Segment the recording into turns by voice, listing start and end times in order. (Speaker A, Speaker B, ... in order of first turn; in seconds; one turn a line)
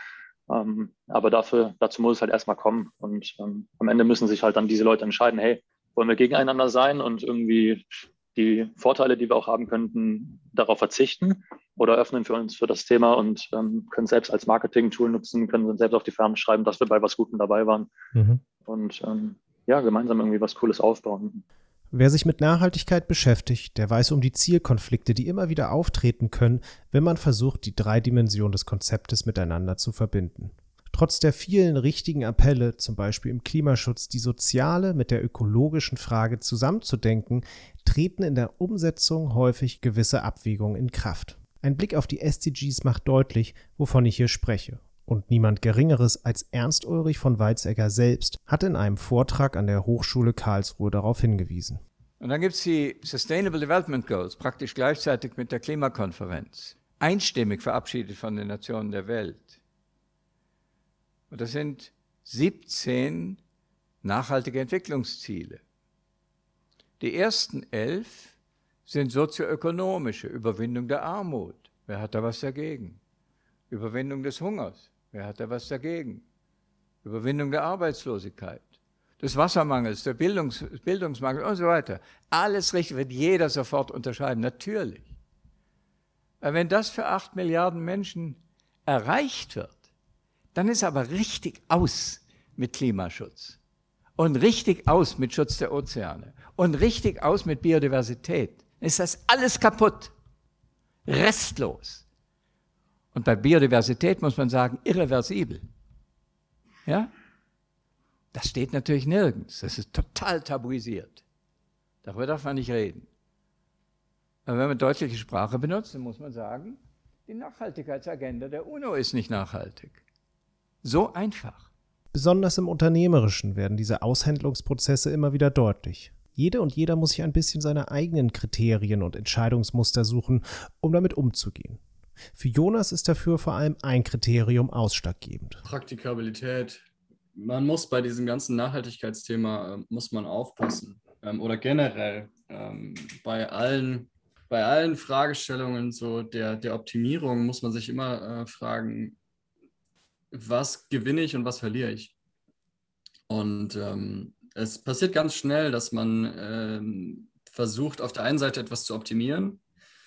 Speaker A: 0.5-17.9
Speaker B: 18.1-18.4
Speaker A: 18.6-21.4
Speaker B: 21.9-51.8
Speaker C: 52.2-59.5
Speaker C: 61.3-63.4
Speaker C: 64.0-65.6
Speaker C: 67.0-68.3
Speaker C: 68.9-73.0
Speaker C: 73.7-76.2
Speaker C: 77.0-85.1
Speaker C: 86.4-89.8
Speaker C: 90.5-93.6
Speaker C: 94.2-100.1
Speaker C: 101.0-102.0
Speaker C: 103.1-105.6
Speaker C: 106.8-107.1
Speaker C: 108.3-111.2
Speaker C: 112.0-113.1
Speaker C: 114.5-120.0
Speaker C: 120.8-121.7
Speaker B: 122.1-131.8
Speaker B: 132.3-135.6
Speaker D: 135.6-136.8
Speaker D: 137.3-149.2
Speaker D: 150.3-152.1
Speaker D: 153.3-159.6